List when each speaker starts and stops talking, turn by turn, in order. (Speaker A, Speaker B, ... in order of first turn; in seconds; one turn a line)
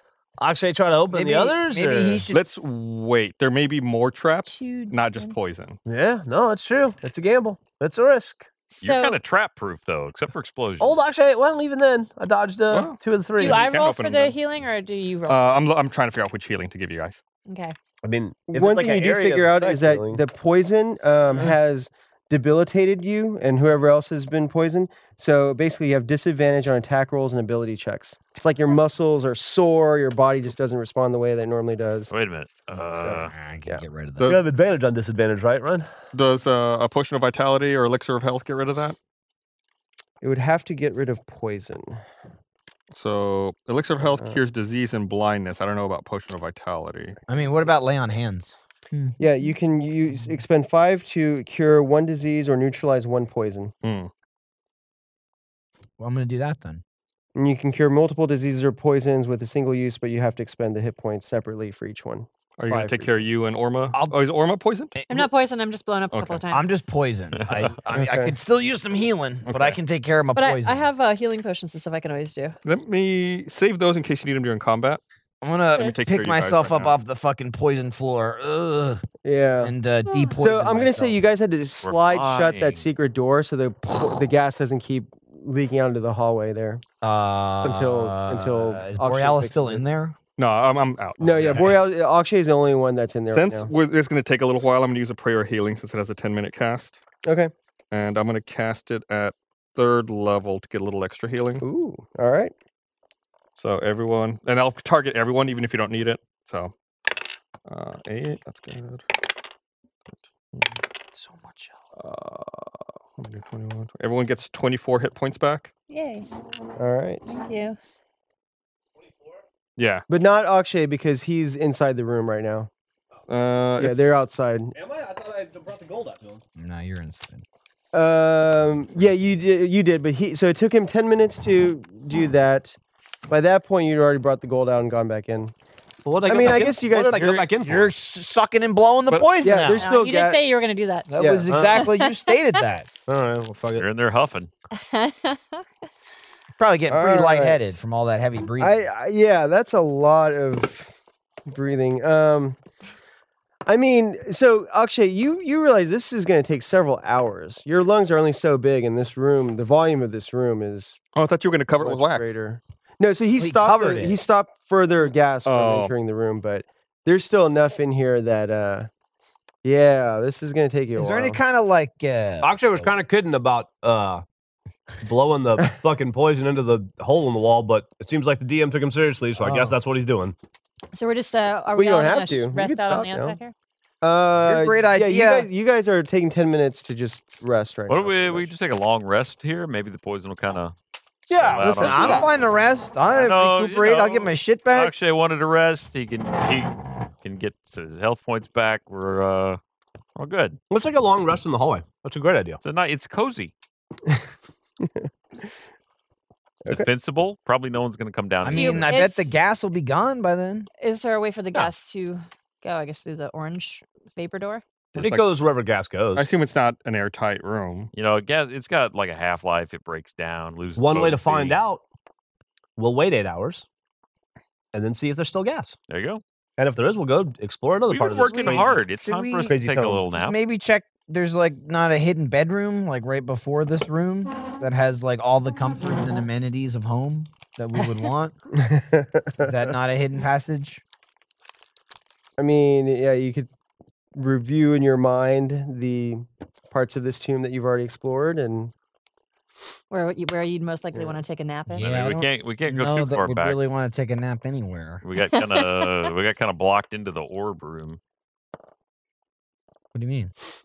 Speaker A: 0.4-2.2
Speaker B: 1.1-2.4
Speaker C: 2.3-5.8
Speaker D: 4.4-5.3
Speaker A: 5.8-8.5
Speaker D: 8.7-9.2
Speaker E: 8.8-11.0
Speaker A: 10.8-13.7
Speaker C: 12.7-14.4
Speaker D: 13.4-15.5
Speaker C: 15.3-17.2
Speaker D: 17.4-17.7
Speaker A: 18.0-20.2
Speaker F: 18.5-32.1
Speaker E: 32.1-33.3
Speaker F: 33.0-33.8
Speaker B: 33.0-34.4
Speaker C: 34.2-34.4
Speaker A: 34.2-35.9
Speaker C: 36.1-39.0
Speaker F: 40.2-42.0
Speaker C: 42.9-47.2
Speaker F: 44.0-44.4
Speaker B: 47.3-49.2
Speaker F: 49.2-53.7
Speaker B: 50.1-50.4
Speaker C: 53.8-54.1
Speaker B: 56.0-56.8
Speaker F: 57.3-63.2
Speaker C: 62.6-65.0
Speaker B: 65.0-65.3
Speaker D: 65.1-66.8
Speaker C: 66.1-66.4
Speaker B: 66.5-70.8
Speaker E: 67.3-67.9
Speaker A: 67.5-67.9
Speaker F: 67.9-68.3
Speaker C: 69.5-69.8
Speaker D: 70.3-72.6
Speaker C: 72.6-75.0
Speaker B: 75.4-79.0
Speaker C: 75.7-76.9
Speaker F: 79.2-79.7
Speaker B: 79.6-81.2
Speaker D: 80.1-80.4
Speaker F: 80.4-86.8
Speaker E: 81.8-82.9
Speaker B: 87.0-90.2
Speaker F: 87.6-89.8
Speaker C: 90.4-91.8
Speaker F: 91.2-93.7
Speaker B: 91.4-91.7
Speaker C: 93.3-97.0
Speaker F: 97.2-97.5
Speaker C: 97.9-101.6
Speaker F: 101.6-102.5
Speaker C: 103.5-106.7
Speaker C: 107.7-109.0
Speaker B: 111.1-111.8
Speaker C: 112.0-115.7
Speaker D: 115.9-116.3
Speaker F: 116.8-117.2
Speaker D: 117.3-117.8
Speaker A: 119.0-119.4
Speaker C: 119.8-120.0
Speaker F: 120.1-122.7
Speaker C: 123.3-124.2
Speaker F: 123.8-124.7
Speaker A: 124.7-126.4
Speaker B: 126.5-127.4
Speaker F: 127.9-132.8
Speaker F: 133.3-135.5
Speaker A: 136.0-137.9
Speaker F: 136.2-137.5
Speaker B: 137.1-139.9
Speaker F: 139.4-140.4
Speaker D: 139.8-142.3
Speaker B: 141.1-142.9
Speaker F: 141.2-141.5
Speaker A: 141.5-141.8
Speaker A: 143.1-143.8
Speaker E: 143.8-144.5
Speaker D: 144.7-145.6
Speaker B: 146.5-148.8
Speaker F: 146.9-147.6
Speaker F: 148.5-150.9
Speaker F: 151.5-152.6
Speaker F: 153.7-161.0
Speaker C: 161.1-162.3
Speaker F: 161.8-168.9
Speaker B: 163.4-164.2
Speaker C: 165.4-165.9
Speaker F: 169.6-171.4
Speaker B: 170.9-172.8
Speaker A: 172.4-174.2
Speaker A: 175.0-180.3
Speaker B: 179.4-179.8
Speaker D: 180.9-183.5
Speaker F: 181.7-183.4
Speaker F: 184.0-188.5
Speaker B: 184.3-185.5
Speaker E: 187.9-190.7
Speaker A: 191.3-192.3
Speaker E: 191.3-192.3
Speaker B: 191.6-194.9
Speaker E: 193.1-199.6
Speaker E: 200.2-200.6
Speaker A: 200.7-202.6
Speaker E: 202.6-203.5
Speaker F: 204.8-205.1
Speaker E: 206.7-208.9
Speaker B: 208.4-210.7
Speaker D: 208.5-209.3
Speaker D: 210.8-214.6
Speaker A: 214.9-216.3
Speaker C: 215.0-215.2
Speaker C: 216.1-217.9
Speaker E: 217.9-221.6
Speaker A: 220.8-221.8
Speaker A: 222.8-223.6
Speaker A: 224.7-225.8
Speaker E: 225.9-226.2
Speaker A: 226.6-228.8
Speaker E: 227.9-230.4
Speaker A: 229.4-230.1
Speaker B: 230.2-238.3
Speaker F: 238.6-239.5
Speaker B: 239.4-240.8
Speaker F: 242.4-243.5
Speaker F: 244.1-248.7
Speaker D: 249.9-251.9
Speaker F: 250.9-251.2
Speaker B: 251.7-255.0
Speaker E: 251.8-253.6
Speaker E: 255.0-258.0
Speaker D: 255.2-256.1
Speaker B: 259.9-260.3